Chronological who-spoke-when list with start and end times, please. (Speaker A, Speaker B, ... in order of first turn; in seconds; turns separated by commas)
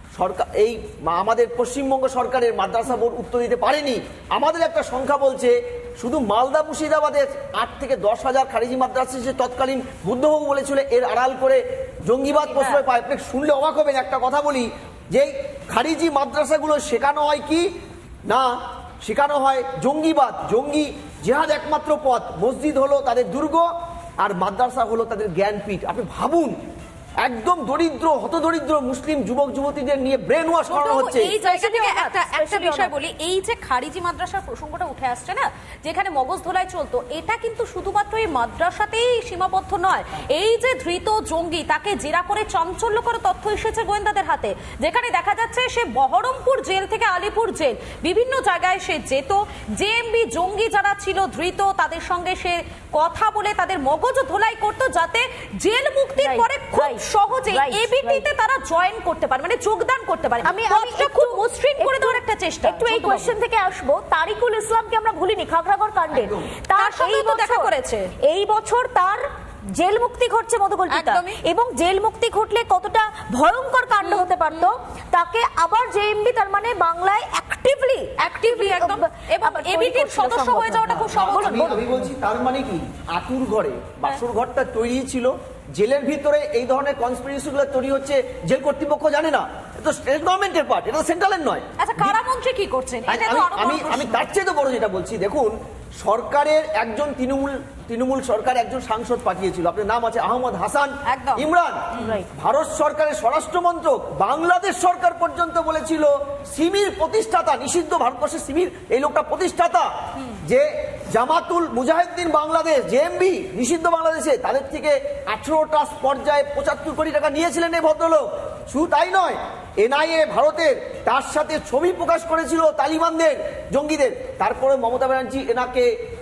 Speaker A: 0.2-17.7, Speaker B: 12.3-12.8, Speaker A: 18.3-18.5, Speaker A: 19.0-23.7, Speaker A: 24.2-26.6, Speaker A: 27.2-31.4, Speaker B: 30.7-63.3, Speaker C: 31.4-32.9, Speaker C: 56.2-58.3, Speaker C: 60.4-69.2, Speaker A: 66.1-66.5, Speaker B: 66.8-68.1, Speaker C: 69.7-81.8, Speaker B: 70.9-71.4, Speaker B: 74.0-74.7, Speaker B: 78.2-81.8, Speaker A: 81.0-92.2, Speaker B: 91.8-94.3, Speaker A: 93.1-109.9, Speaker B: 101.0-102.2, Speaker A: 110.4-125.9